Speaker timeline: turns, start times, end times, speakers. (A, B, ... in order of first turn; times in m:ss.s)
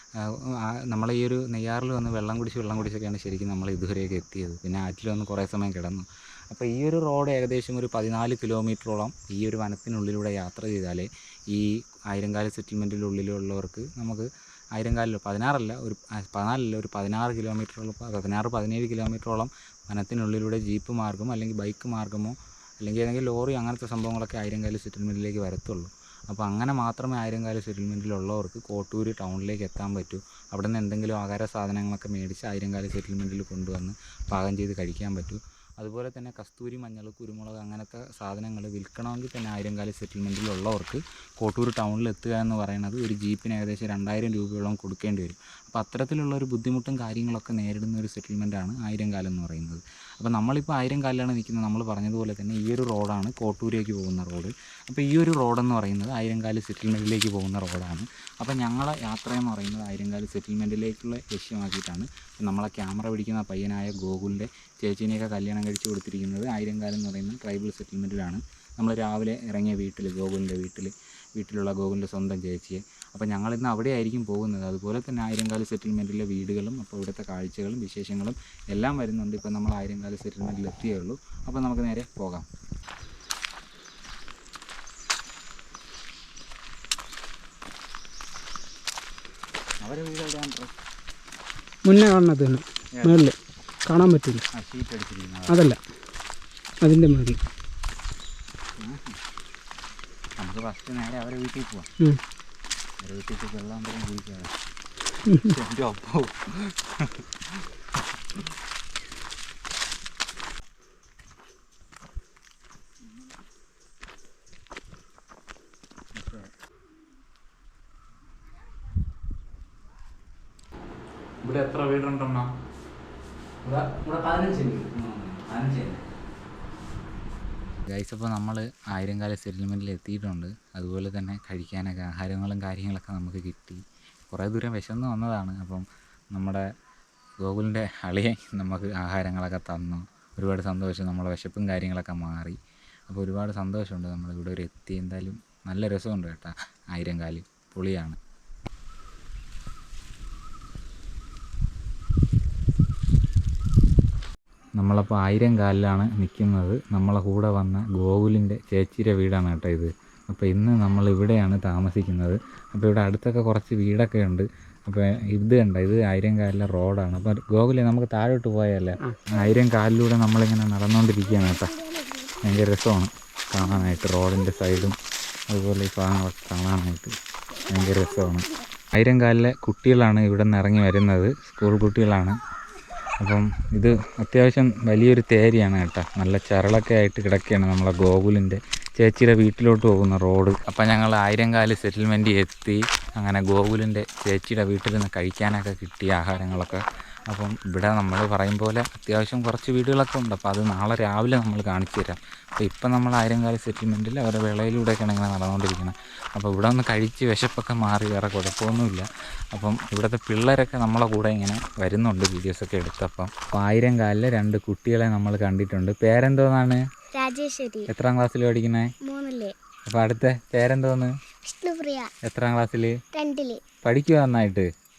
0:00.2-1:22.5 A
1:29.8-1:30.7 A
1:31.9-1:33.4 B
1:33.0-1:33.3 A
1:33.9-1:34.4 B
1:34.5-1:35.6 A
1:35.5-1:35.8 B
1:36.8-1:37.4 B
1:38.8-1:39.2 A
1:40.4-1:41.9 A
1:43.0-1:44.5 A
1:45.3-1:45.5 B
1:45.4-1:47.6 A
1:56.2-1:56.5 A
2:01.4-2:02.5 A
2:03.6-2:06.0 A
2:07.9-2:16.6 A
2:17.4-2:22.6 A
2:23.1-2:28.2 A
2:34.8-2:51.7 A
2:52.4-2:55.0 A
2:55.5-2:57.1 A
2:57.7-3:02.4 A
3:03.2-3:36.8 A
3:37.1-3:37.9 C
3:37.9-3:38.9 A
3:39.0-3:39.6 C
3:39.9-3:41.1 A
3:41.4-3:42.1 C
3:42.2-3:43.0 A
3:43.1-3:43.6 C
3:43.8-3:44.7 A